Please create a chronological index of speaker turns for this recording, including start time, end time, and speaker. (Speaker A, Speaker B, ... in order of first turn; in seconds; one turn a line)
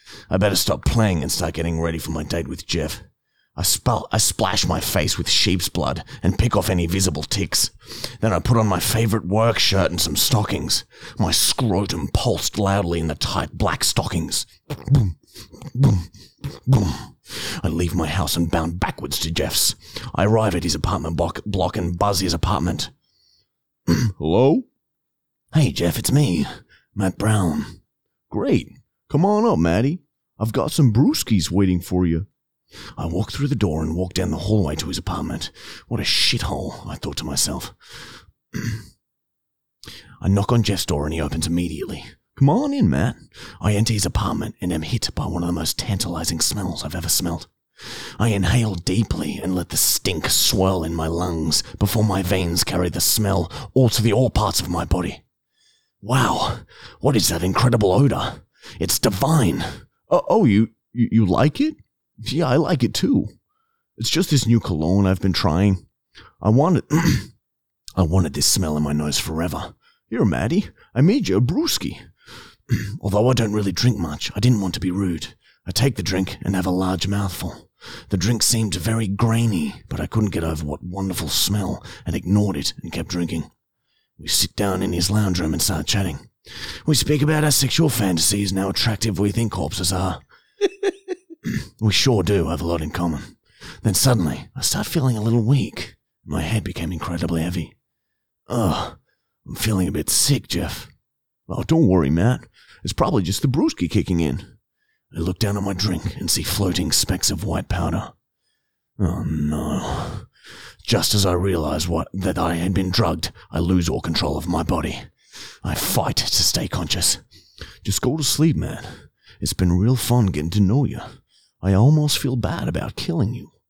Speaker A: 0.3-22.9
Speaker A: 23.9-24.7
Speaker A: 25.5-27.8
Speaker A: 28.3-32.3
Speaker A: 33.0-38.8
Speaker A: 40.2-47.5
Speaker A: 48.2-55.2
Speaker A: 56.0-63.3
Speaker A: 64.0-65.8
Speaker A: 66.4-67.3
Speaker A: 68.0-72.1
Speaker A: 72.7-83.5
Speaker A: 84.2-90.2
Speaker A: 91.4-97.7
Speaker A: 98.5-100.9
Speaker A: 101.5-104.5
Speaker A: 105.1-108.1
Speaker A: 109.0-110.3
Speaker A: 110.8-115.1
Speaker A: 115.6-117.2
Speaker A: 117.8-123.5